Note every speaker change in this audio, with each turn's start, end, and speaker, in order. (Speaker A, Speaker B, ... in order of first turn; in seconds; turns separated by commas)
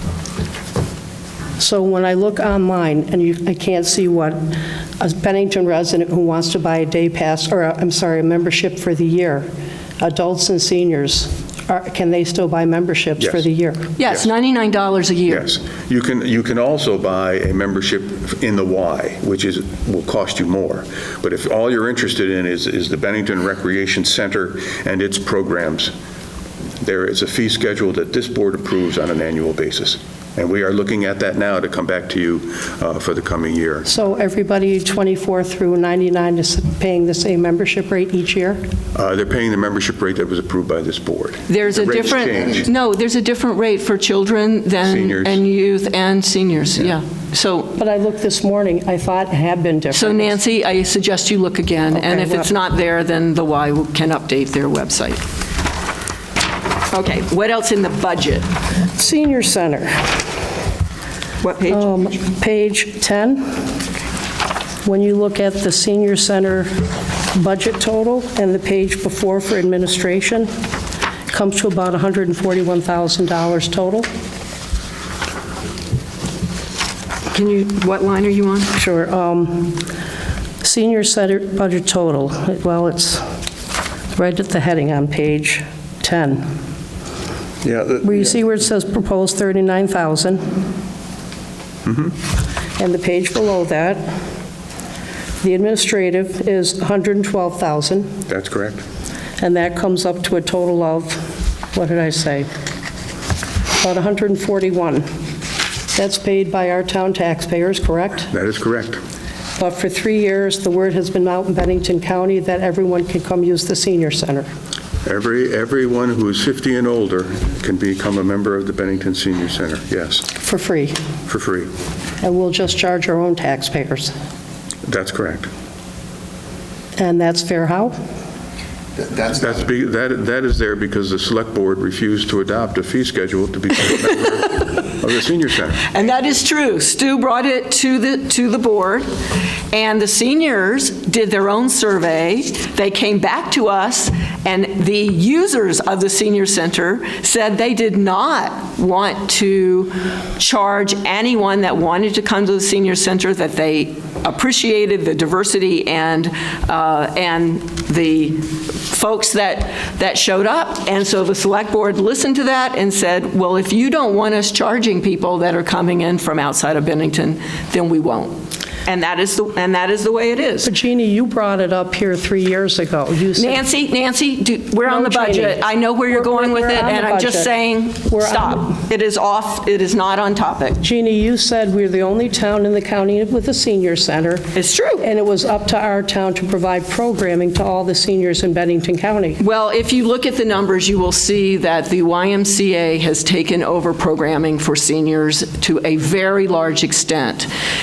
Speaker A: 1.6-9.4, Speaker A: 10.0-13.9, Speaker B: 13.2-13.5, Speaker C: 14.0-15.5, Speaker B: 15.3-25.9, Speaker B: 26.8-33.9, Speaker A: 33.9-38.6, Speaker B: 38.9-42.7, Speaker C: 41.5-47.8, Speaker B: 44.8-45.4, Speaker A: 47.8-50.4, Speaker C: 49.9-55.2, Speaker A: 51.9-52.5, Speaker C: 56.9-58.5, Speaker A: 59.0-60.2, Speaker C: 61.4-62.1, Speaker A: 61.7-63.6, Speaker A: 64.8-66.7, Speaker A: 67.3-70.5, Speaker A: 71.3-74.1, Speaker C: 77.3-78.7, Speaker A: 78.7-79.8, Speaker A: 80.6-83.2, Speaker A: 84.1-86.5, Speaker B: 87.6-88.3, Speaker A: 88.0-90.5, Speaker B: 91.9-92.1, Speaker A: 92.8-94.0, Speaker A: 95.4-98.2, Speaker B: 98.3-98.8, Speaker A: 99.4-102.5, Speaker A: 103.8-105.0, Speaker A: 105.9-108.3, Speaker B: 108.3-109.0, Speaker A: 109.6-114.5, Speaker B: 115.0-120.3, Speaker A: 120.4-121.0, Speaker B: 121.3-121.7, Speaker A: 122.2-124.1, Speaker B: 124.8-125.5, Speaker A: 127.0-127.9, Speaker B: 129.0-136.0, Speaker C: 135.9-139.1, Speaker C: 139.7-170.7, Speaker A: 170.6-173.6, Speaker C: 173.3-180.8, Speaker A: 174.8-178.8, Speaker A: 180.8-184.4, Speaker C: 184.5-185.1, Speaker A: 185.0-189.4, Speaker C: 189.4-197.5